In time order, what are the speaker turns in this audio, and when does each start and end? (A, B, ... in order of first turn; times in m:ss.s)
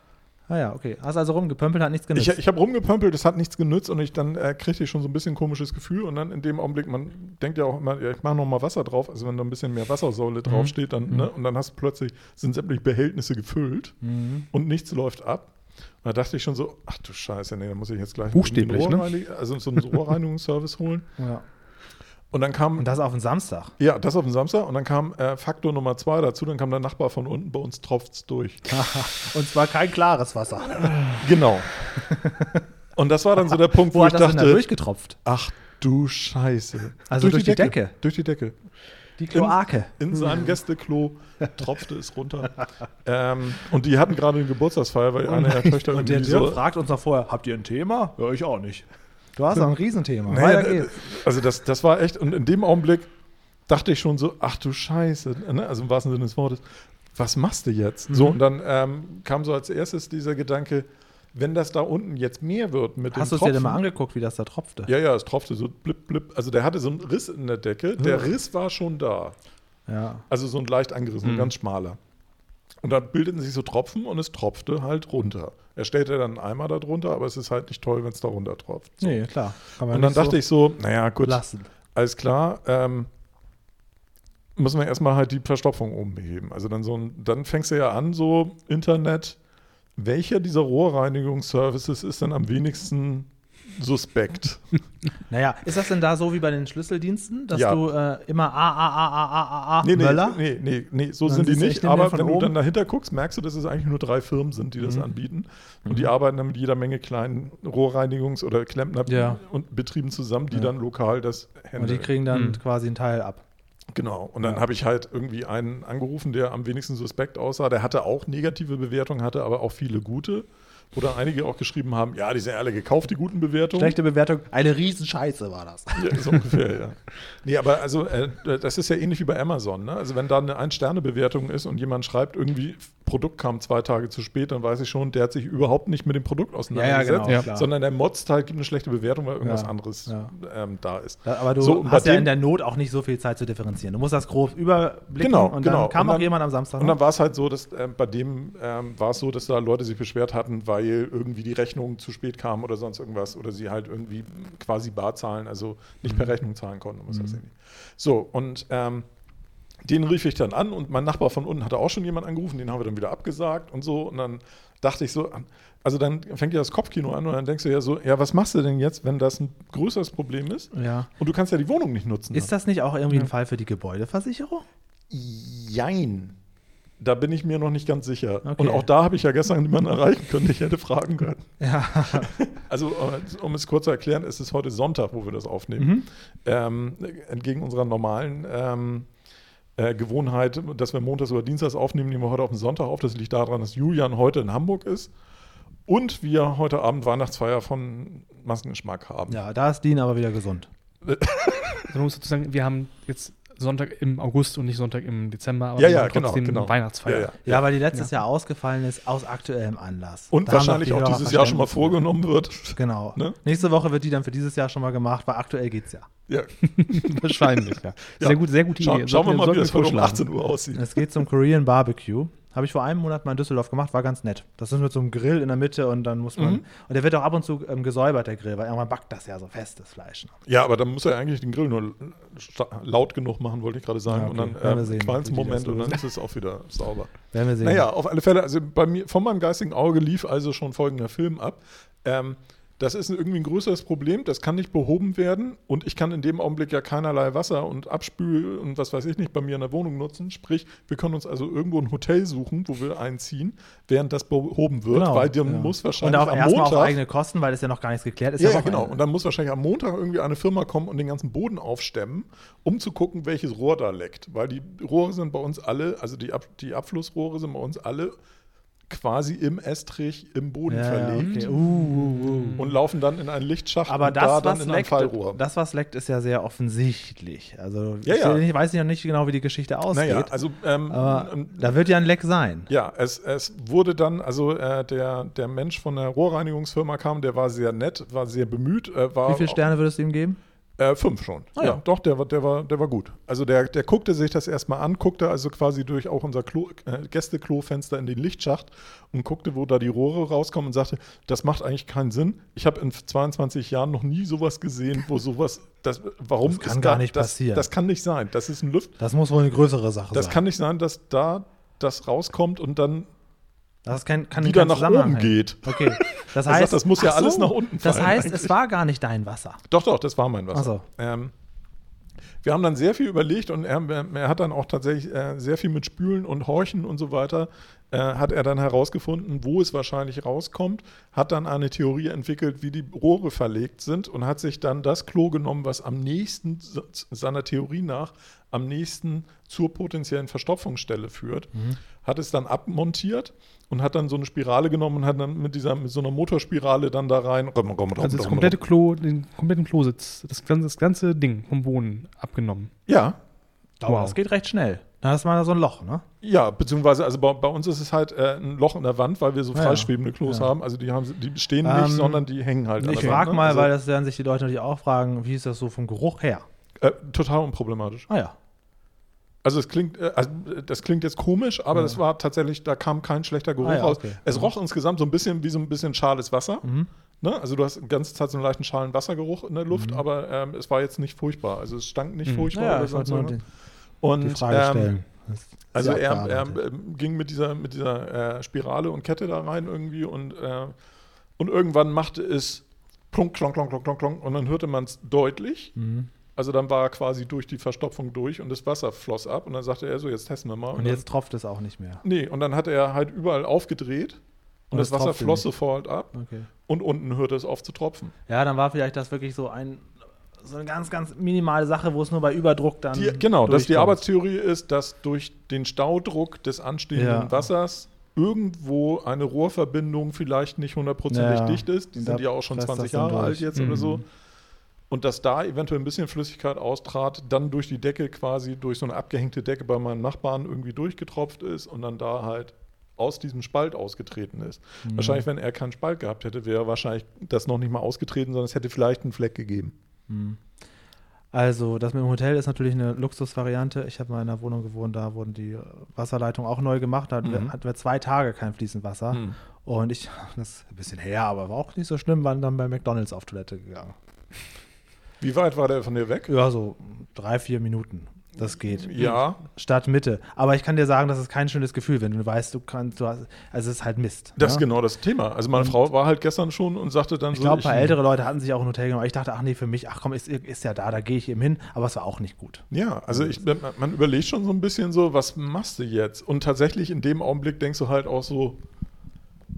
0:00.5-0:02.4 A
0:02.1-0:14.0 B
0:10.5-0:11.3 C
0:14.0-0:14.5 A
0:14.5-0:15.5 B
0:16.0-0:21.1 B
0:18.3-0:19.1 C
0:21.2-0:21.4 A
0:22.3-0:22.9 B
0:22.8-0:23.8 A
0:23.8-0:28.7 B
0:28.7-0:31.3 A
0:31.2-0:31.7 B
0:31.9-0:32.6 A
0:33.0-0:34.7 B
0:33.5-0:35.2 A
0:35.2-0:38.6 B
0:37.1-0:37.9 A
0:39.2-0:40.5 A
0:39.3-0:46.6 B
0:45.3-0:48.8 A
0:49.4-0:51.0 A
0:50.3-0:53.1 B
0:53.7-1:03.8 B
0:58.1-0:58.4 A
1:03.1-1:04.9 A
1:04.9-1:09.4 B
1:08.0-1:08.3 A
1:09.9-1:10.3 A
1:10.3-1:12.0 B
1:11.2-1:11.5 C
1:12.8-1:19.2 B
1:19.0-1:20.4 A
1:19.9-1:21.4 B
1:21.2-1:21.7 A
1:21.9-1:23.1 B
1:24.6-1:29.4 B
1:30.0-1:34.6 B
1:35.3-1:40.4 A
1:37.5-1:37.8 B
1:39.8-1:52.2 B
1:41.3-1:42.6 A
1:49.1-1:49.4 A
1:51.8-1:53.4 A
1:52.3-1:52.6 C
1:53.9-2:04.0 B
2:03.8-2:06.3 A
2:06.0-2:22.3 B
2:16.7-2:17.7 A
2:19.4-2:20.3 A
2:21.2-2:27.0 A
2:25.2-2:39.1 B
2:39.8-2:52.5 B
2:50.7-2:51.1 A
2:52.3-2:54.6 A
2:55.1-2:56.4 B
2:57.0-3:01.5 B
2:58.4-2:58.9 A
3:01.6-3:02.3 A
3:02.2-3:09.1 B
3:05.8-3:06.1 A
3:09.8-3:15.1 B
3:15.9-3:19.4 B
3:19.3-3:20.7 A
3:21.0-3:21.9 B
3:21.9-3:27.3 C
3:25.8-3:27.6 B
3:27.4-3:32.0 A
3:30.3-3:33.4 B
3:32.8-3:36.1 A
3:36.3-3:40.9 B
3:36.7-3:40.3 C
3:40.8-3:50.4 A
3:46.4-3:46.6 B
3:50.4-4:17.0 B
3:54.1-3:56.0 A
3:57.3-3:57.9 A
4:14.9-4:19.0 A
4:18.4-4:28.2 B
4:28.9-4:31.5 B
4:30.7-4:32.6 A
4:31.2-4:32.6 C
4:32.6-4:35.4 B
4:33.9-4:40.3 A
4:38.0-4:38.4 B
4:39.9-4:41.7 B
4:40.9-4:42.7 A
4:42.7-4:49.7 B
4:49.3-4:50.4 A
4:50.8-5:09.0 B
5:06.4-5:07.7 A
5:09.0-5:10.4 A
5:10.1-5:13.1 B
5:13.8-5:19.6 A
5:14.4-5:18.5 B
5:19.7-5:21.3 B
5:20.5-5:20.8 A
5:22.4-5:48.6 B
5:41.5-5:41.8 A
5:48.0-5:52.7 C
5:52.9-5:53.2 B
5:53.8-5:56.0 A
5:53.8-5:54.2 C
5:56.2-6:03.7 B
5:59.5-6:00.5 A
6:01.6-6:02.2 A
6:02.8-6:06.4 A
6:02.8-6:03.2 C
6:06.8-6:08.1 B
6:09.4-6:16.7 B
6:13.6-6:14.5 A
6:16.6-6:16.9 A
6:17.2-6:23.4 B
6:19.7-6:20.0 A
6:22.5-6:23.4 A
6:24.0-6:24.9 B
6:24.2-6:26.6 A
6:25.7-6:30.8 B
6:31.4-6:35.7 B
6:35.8-6:36.1 A
6:36.4-6:41.0 B
6:40.8-6:42.0 A
6:42.0-6:44.2 B
6:44.7-6:46.1 B
6:44.7-6:45.5 A
6:46.1-6:46.5 A
6:46.7-6:48.1 B
6:48.3-6:49.9 A
6:50.4-6:54.0 A
6:52.9-7:04.0 B
6:57.0-6:57.5 A
7:01.1-7:03.8 A
7:03.6-7:04.0 C
7:04.9-7:19.8 B
7:14.8-7:15.3 A
7:20.1-7:20.4 A
7:21.3-7:34.0 A
7:27.2-7:27.5 B
7:29.1-7:29.4 B
7:35.2-7:36.3 B
7:36.3-7:44.6 A
7:38.8-7:39.4 B
7:44.4-7:48.0 B
7:47.3-7:53.4 A
7:52.7-7:58.6 B